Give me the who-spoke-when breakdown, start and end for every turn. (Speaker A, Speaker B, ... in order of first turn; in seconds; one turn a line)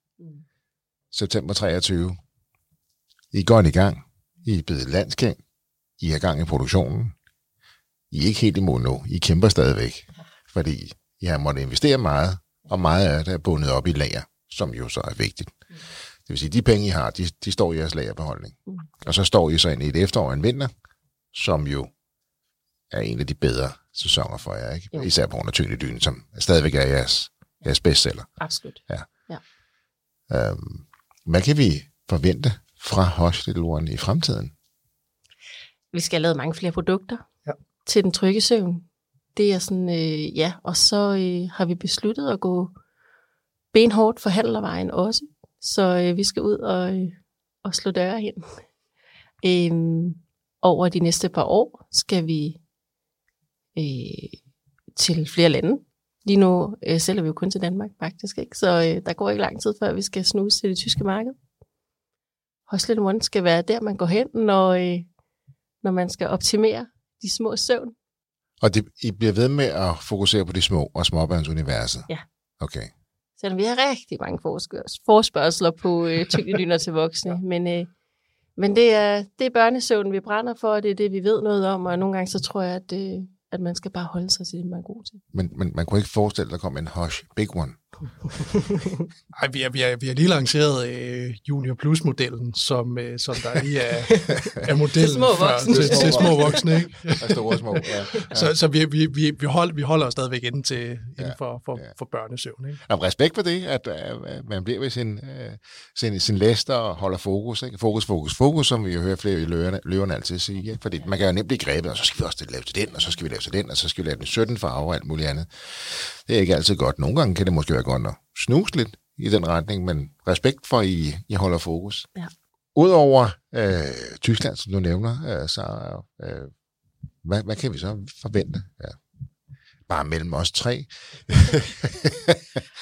Speaker A: 1.1-2.2
Speaker A: 3.3-5.4
Speaker A: 6.0-7.1
Speaker A: 8.1-15.6
Speaker A: 16.3-20.7
Speaker A: 21.3-21.9
Speaker A: 22.9-28.4
Speaker B: 28.4-29.4
Speaker A: 30.3-34.5
Speaker B: 35.9-37.3
Speaker B: 37.9-38.9
Speaker B: 39.4-42.7
Speaker B: 43.7-48.5
Speaker B: 49.4-52.6
Speaker B: 53.8-54.4
Speaker B: 55.0-61.4
Speaker B: 62.7-65.1
Speaker B: 65.8-68.0
Speaker A: 68.6-72.1
Speaker A: 72.6-72.9
Speaker B: 73.4-77.9
Speaker B: 78.6-85.2
Speaker A: 85.3-87.8
Speaker C: 89.3-97.4
Speaker B: 94.1-94.4
Speaker A: 94.3-94.7
Speaker B: 94.9-96.7
Speaker A: 95.7-98.5
Speaker C: 98.3-102.8
Speaker A: 101.2-101.9
Speaker A: 102.9-122.1
Speaker A: 122.8-126.5
Speaker A: 127.2-129.0
Speaker A: 129.9-132.6